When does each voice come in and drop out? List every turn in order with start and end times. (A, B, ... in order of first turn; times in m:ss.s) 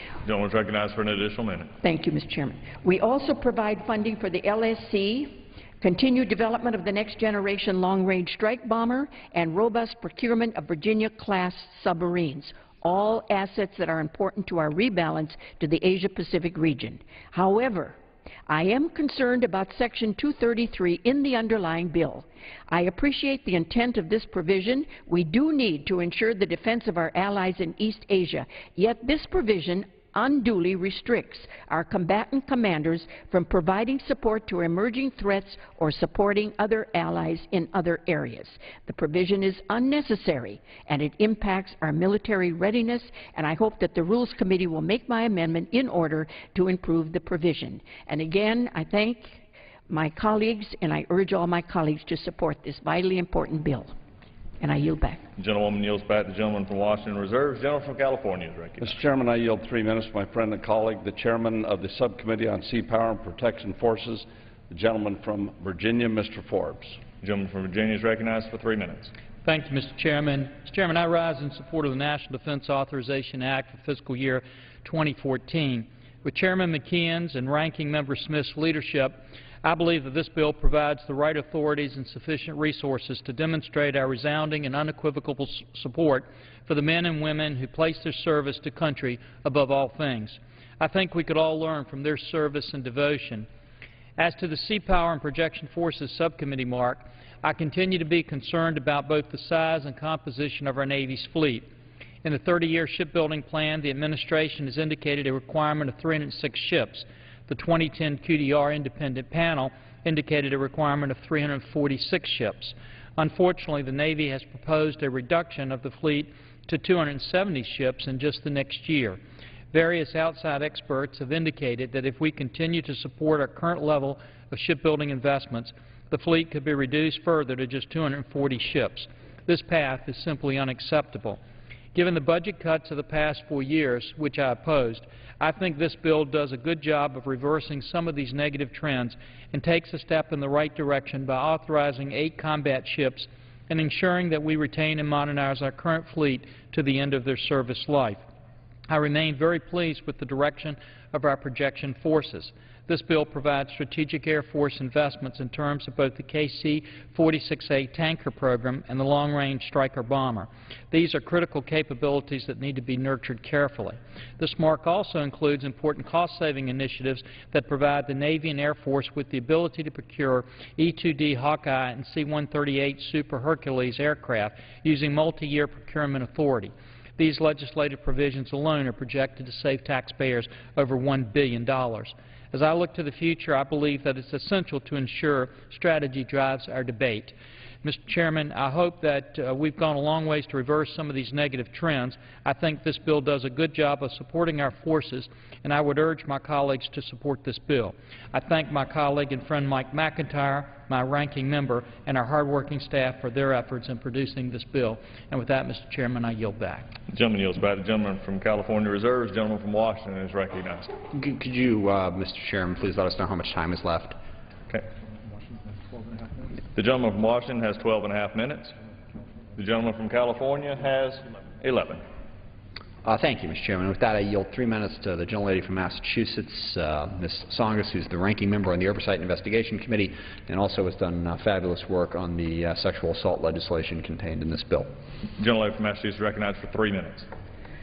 0:00.2-0:01.7 A
0:01.8-0:54.0 B
0:54.6-0:55.2 B
0:55.4-0:59.0 A
0:58.8-1:07.0 C
1:07.2-1:09.1 A
1:09.4-1:33.5 D
1:34.2-1:41.7 D
1:42.2-1:59.2 D
1:59.7-2:11.4 D
2:11.9-2:28.2 D
2:28.9-3:26.9 D
3:27.1-3:30.9 A
3:31.1-3:34.2 E
3:36.7-3:38.8 A
3:39.6-3:42.0 A
3:43.0-3:54.9 E
3:55.4-3:57.3 A